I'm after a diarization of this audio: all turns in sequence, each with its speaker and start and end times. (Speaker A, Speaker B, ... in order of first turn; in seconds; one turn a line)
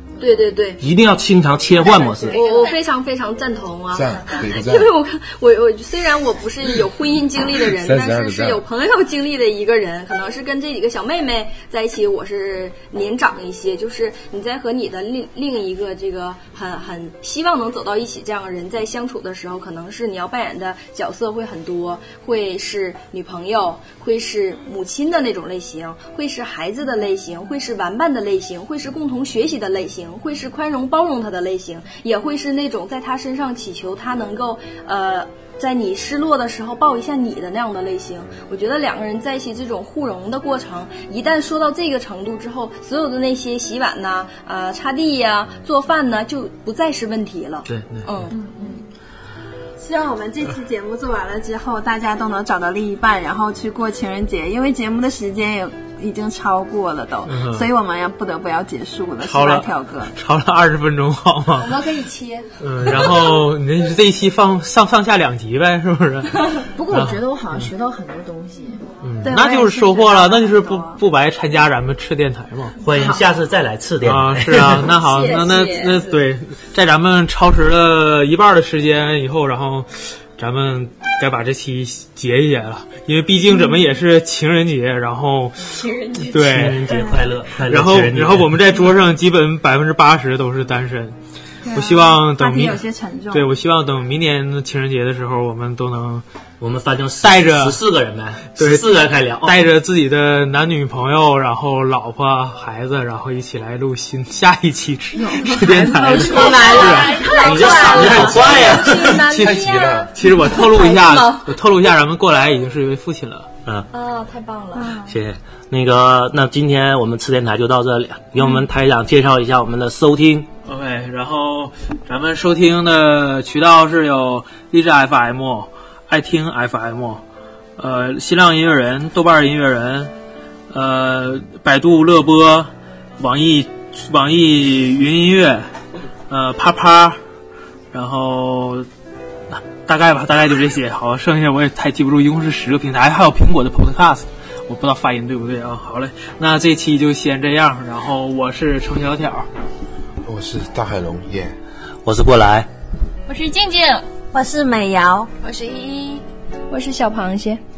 Speaker A: 0.2-0.8
Speaker B: 0.8-2.4
Speaker C: 1.9-2.8
Speaker A: 2.2-48.3
Speaker D: 3.9-4.9
Speaker D: 7.7-8.6
Speaker B: 47.7-48.1
Speaker E: 48.3-48.8
Speaker F: 49.8-60.1
Speaker G: 57.3-57.7
Speaker G: 59.2-61.7
Speaker F: 61.6-63.1
Speaker G: 62.6-67.7
Speaker E: 66.8-68.8
Speaker G: 69.0-72.8
Speaker F: 69.2-71.0
Speaker B: 72.8-74.9
Speaker E: 73.0-73.2
Speaker G: 74.0-86.9
Speaker A: 75.0-76.1
Speaker F: 83.5-83.8
Speaker B: 86.2-88.6
Speaker G: 87.7-91.2
Speaker F: 91.7-93.5
Speaker G: 91.7-96.2
Speaker B: 96.6-99.7
Speaker G: 97.2-97.8
Speaker G: 98.6-98.9
Speaker G: 99.4-107.4
Speaker F: 105.1-108.4
Speaker A: 106.1-111.5
Speaker C: 107.3-108.5
Speaker B: 107.4-109.2
Speaker D: 109.0-110.1
Speaker G: 110.1-113.5
Speaker A: 113.9-115.0
Speaker F: 114.7-115.1
Speaker B: 115.0-120.5
Speaker G: 120.7-127.2
Speaker G: 127.8-130.1
Speaker G: 130.7-135.7
Speaker G: 136.3-137.2
Speaker G: 137.9-138.9
Speaker G: 139.5-149.5
Speaker D: 150.2-151.5
Speaker B: 152.0-152.7
Speaker C: 153.3-154.1
Speaker F: 154.3-155.3
Speaker A: 156.7-157.6